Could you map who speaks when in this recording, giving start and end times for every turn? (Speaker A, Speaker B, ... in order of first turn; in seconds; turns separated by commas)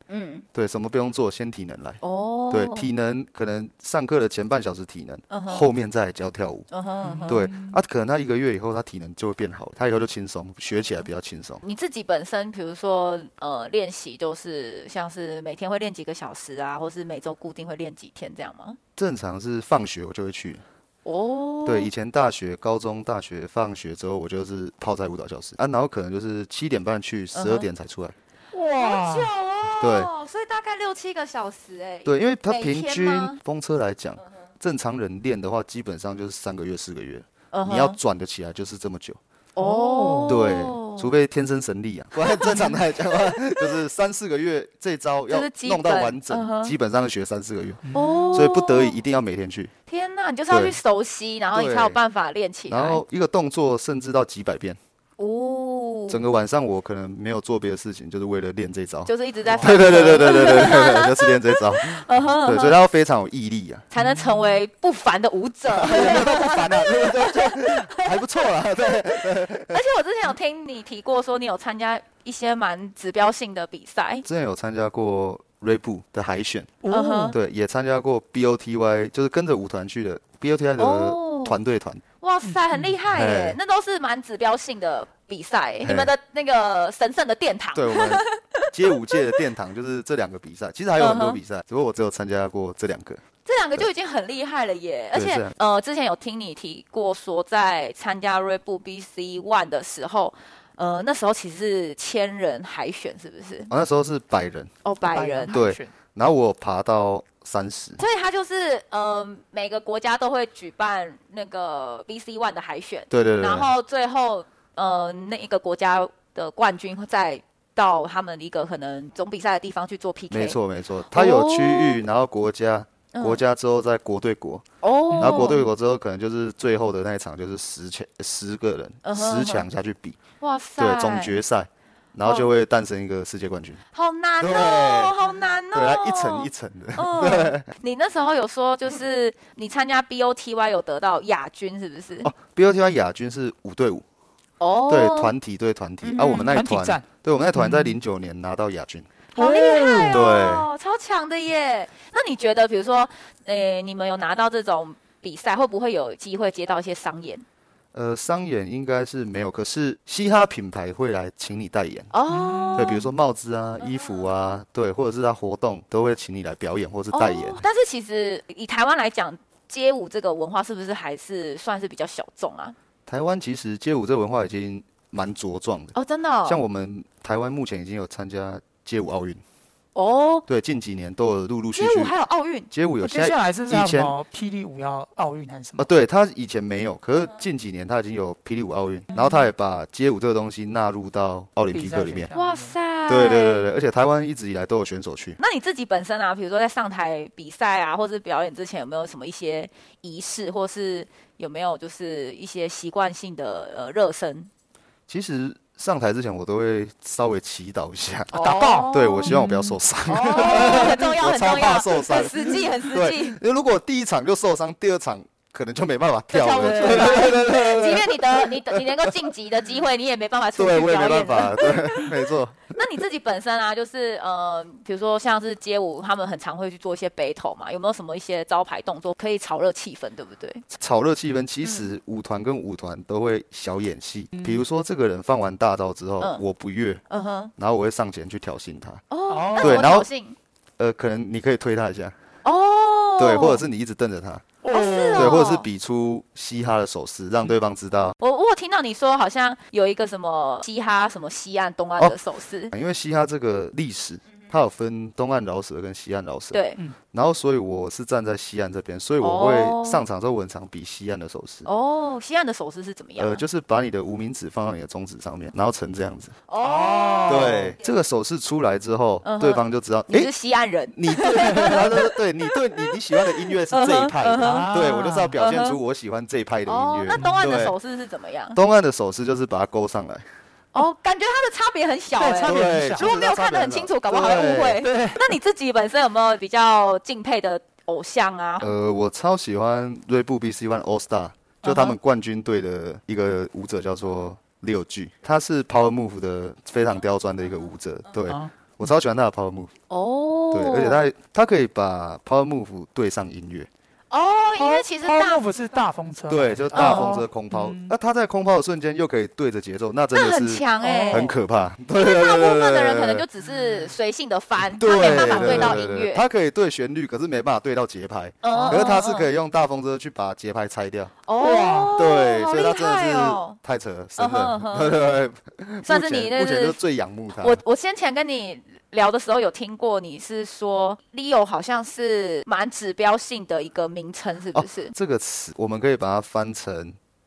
Speaker A: 0.1-0.4, Speaker B: 0.5-6.7, Speaker A: 2.0-2.9, Speaker A: 5.3-5.7, Speaker A: 6.7-7.5, Speaker C: 7.0-7.7, Speaker B: 7.3-11.6, Speaker A: 11.6-18.8, Speaker B: 19.0-20.6, Speaker A: 21.0-21.9, Speaker B: 21.6-28.1, Speaker A: 27.3-27.7, Speaker C: 28.5-29.3, Speaker A: 28.8-33.4, Speaker B: 29.8-30.1, Speaker B: 32.0-39.2, Speaker A: 37.5-38.0, Speaker A: 39.5-41.1, Speaker C: 39.6-40.4, Speaker B: 40.3-47.8, Speaker A: 42.2-43.6, Speaker A: 45.3-46.7, Speaker C: 47.8-48.1, Speaker A: 47.9-49.0, Speaker B: 48.3-49.7, Speaker A: 49.9-53.0, Speaker B: 50.5-50.8, Speaker B: 51.5-52.0, Speaker B: 52.7-54.8, Speaker A: 55.2-56.2, Speaker B: 56.1-63.8, Speaker A: 59.0-62.8, Speaker C: 59.6-60.2, Speaker A: 63.9-68.2, Speaker C: 64.0-64.3, Speaker B: 65.7-69.8, Speaker C: 65.9-66.6, Speaker A: 68.7-74.2, Speaker B: 74.2-76.8, Speaker C: 76.8-77.4, Speaker A: 76.9-77.4, Speaker B: 77.3-82.0, Speaker A: 80.8-81.6, Speaker A: 82.2-89.4, Speaker C: 82.4-83.0, Speaker B: 83.1-83.6, Speaker B: 85.8-86.1, Speaker B: 87.7-93.2, Speaker A: 91.0-91.4, Speaker A: 93.5-103.7, Speaker B: 95.1-95.5, Speaker B: 103.7-104.7, Speaker A: 104.8-105.5, Speaker C: 105.1-105.9, Speaker B: 105.5-108.0, Speaker A: 108.0-120.6, Speaker B: 113.1-113.7, Speaker B: 120.3-130.2, Speaker A: 121.1-122.0, Speaker A: 123.1-123.4, Speaker A: 124.8-125.7, Speaker C: 125.1-125.5, Speaker A: 129.0-129.6, Speaker A: 130.4-131.3, Speaker B: 130.8-133.8, Speaker A: 132.2-132.5, Speaker A: 133.9-142.3, Speaker B: 134.4-135.1, Speaker B: 135.7-137.7, Speaker B: 142.2-144.0, Speaker A: 144.6-145.3, Speaker B: 144.9-149.1, Speaker A: 146.0-146.5, Speaker C: 146.3-147.9, Speaker A: 149.3-157.4, Speaker C: 149.3-150.4, Speaker B: 150.1-150.7, Speaker B: 157.9-162.1, Speaker A: 162.1-163.1, Speaker C: 162.3-163.0, Speaker B: 162.7-167.6, Speaker A: 167.1-172.7, Speaker B: 173.1-175.9, Speaker A: 175.9-176.6, Speaker B: 176.4-179.4, Speaker A: 179.9-180.4, Speaker B: 180.5-182.1, Speaker A: 181.7-182.7, Speaker B: 182.7-184.1, Speaker C: 183.0-185.9, Speaker B: 185.8-192.3, Speaker C: 191.7-192.7, Speaker A: 192.3-193.7, Speaker B: 193.1-195.4, Speaker A: 195.4-204.5, Speaker B: 205.1-219.1, Speaker A: 208.3-209.3, Speaker C: 208.3-209.8, Speaker A: 210.1-213.4, Speaker C: 210.3-210.9, Speaker A: 216.3-222.2, Speaker C: 216.7-217.1, Speaker B: 220.6-222.6, Speaker A: 222.7-230.6, Speaker B: 230.7-237.0, Speaker C: 234.3-234.6, Speaker A: 237.1-237.5, Speaker B: 237.6-239.0, Speaker A: 239.1-240.4, Speaker C: 239.3-239.9, Speaker B: 239.6-240.1, Speaker B: 240.8-242.1, Speaker A: 242.4-243.6, Speaker B: 243.2-244.5, Speaker C: 244.6-245.4, Speaker A: 244.7-245.7, Speaker B: 245.1-248.2, Speaker A: 248.2-252.7, Speaker B: 252.7-256.6, Speaker A: 256.5-256.8, Speaker B: 257.1-261.7, Speaker A: 259.2-260.0, Speaker A: 261.6-263.4, Speaker B: 263.2-266.3, Speaker A: 266.5-267.8, Speaker C: 266.6-267.7, Speaker B: 267.3-270.3, Speaker A: 269.2-275.8, Speaker B: 270.9-277.8, Speaker C: 274.4-275.4, Speaker A: 276.7-278.6, Speaker C: 277.1-277.4, Speaker B: 278.5-280.2, Speaker A: 280.7-288.7, Speaker C: 282.2-283.1, Speaker B: 282.4-284.9, Speaker C: 284.8-285.3, Speaker B: 288.6-299.7, Speaker A: 291.6-291.9, Speaker C: 298.2-298.5, Speaker A: 299.9-301.0, Speaker B: 300.5-303.7, Speaker A: 304.1-305.4, Speaker C: 304.6-307.9, Speaker B: 306.3-313.2, Speaker A: 306.7-307.2, Speaker A: 310.1-311.3, Speaker C: 310.8-311.4, Speaker A: 312.0-316.2, Speaker B: 314.8-321.1, Speaker C: 315.0-315.8, Speaker A: 318.4-319.3, Speaker C: 318.5-318.9, Speaker A: 321.3-323.6, Speaker C: 321.4-322.0, Speaker B: 321.9-327.6, Speaker A: 324.2-325.0, Speaker A: 325.8-326.8, Speaker A: 327.4-334.9, Speaker B: 334.5-337.0